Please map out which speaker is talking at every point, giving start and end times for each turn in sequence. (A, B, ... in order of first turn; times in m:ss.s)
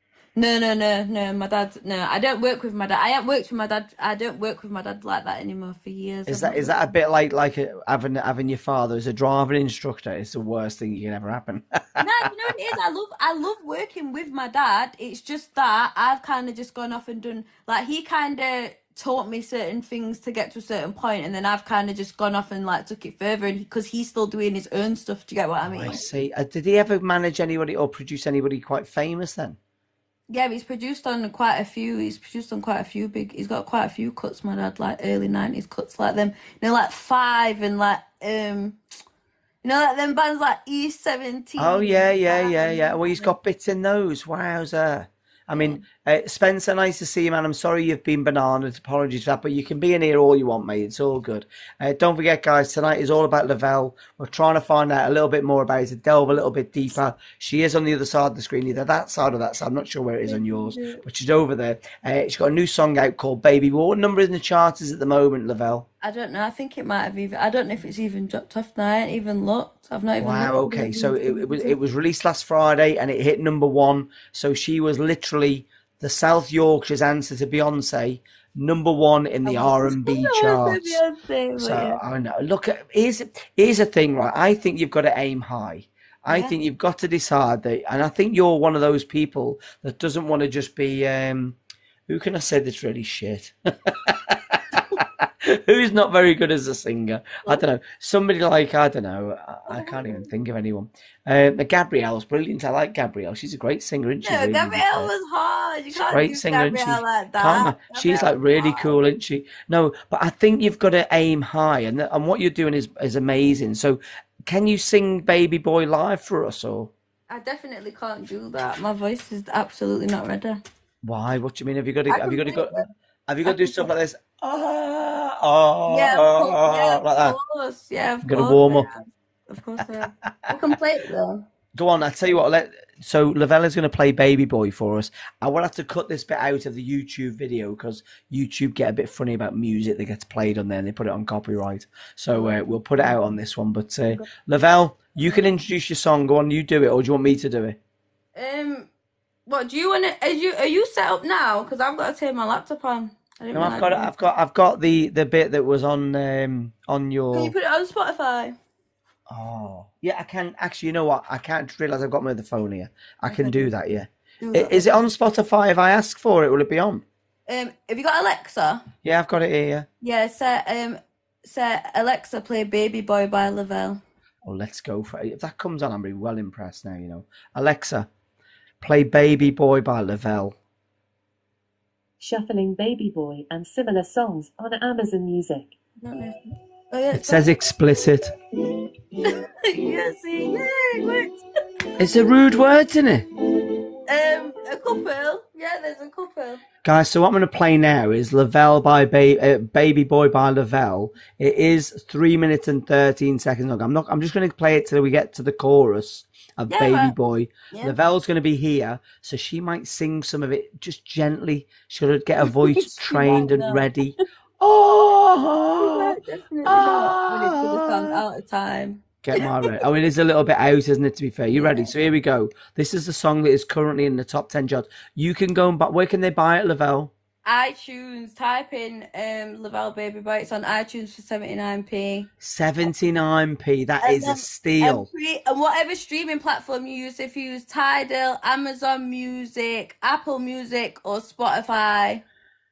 0:00.4-0:06.7 A
0:06.3-0:12.3 B
0:12.0-0:26.1 A
0:25.6-0:29.6 B
0:30.3-0:38.8 A
0:39.6-0:43.3 A
0:41.6-1:05.9 B
0:45.5-0:45.8 A
1:00.3-1:01.0 A
1:06.0-1:11.8 A
1:10.2-1:21.0 B
1:19.4-1:22.0 A
1:21.6-1:45.1 B
1:26.3-1:26.5 A
1:39.7-1:40.3 A
1:44.2-1:48.9 A
1:45.9-1:56.9 B
1:57.3-2:00.6 A
2:01.0-2:07.4 B
2:02.1-2:02.9 A
2:03.5-2:03.9 A
2:05.9-2:11.5 A
2:08.2-2:08.9 B
2:10.0-2:10.5 B
2:11.8-2:27.8 B
2:22.3-2:23.1 A
2:25.2-2:25.4 A
2:28.4-2:28.9 A
2:29.5-2:34.1 A
2:33.5-2:37.5 B
2:37.3-2:38.6 A
2:39.3-2:47.0 B
2:43.3-2:43.7 A
2:44.4-2:44.9 A
2:47.5-2:48.8 A
2:49.0-2:49.9 B
2:50.0-2:54.0 A
2:54.4-2:58.1 B
2:58.8-3:00.6 B
3:02.2-3:05.8 C
3:06.0-3:06.4 A
3:06.9-3:07.5 A
3:07.1-3:08.3 B
3:09.2-3:11.4 A
3:12.0-3:13.2 B
3:14.1-3:16.6 A
3:16.8-3:38.2 B
3:26.7-3:27.1 A
3:27.7-3:28.0 A
3:32.5-3:33.9 A
3:35.8-3:39.7 A
3:39.2-3:47.1 B
3:41.5-3:41.9 A
3:47.4-3:52.3 A
3:52.4-3:55.1 B
3:54.0-4:02.2 A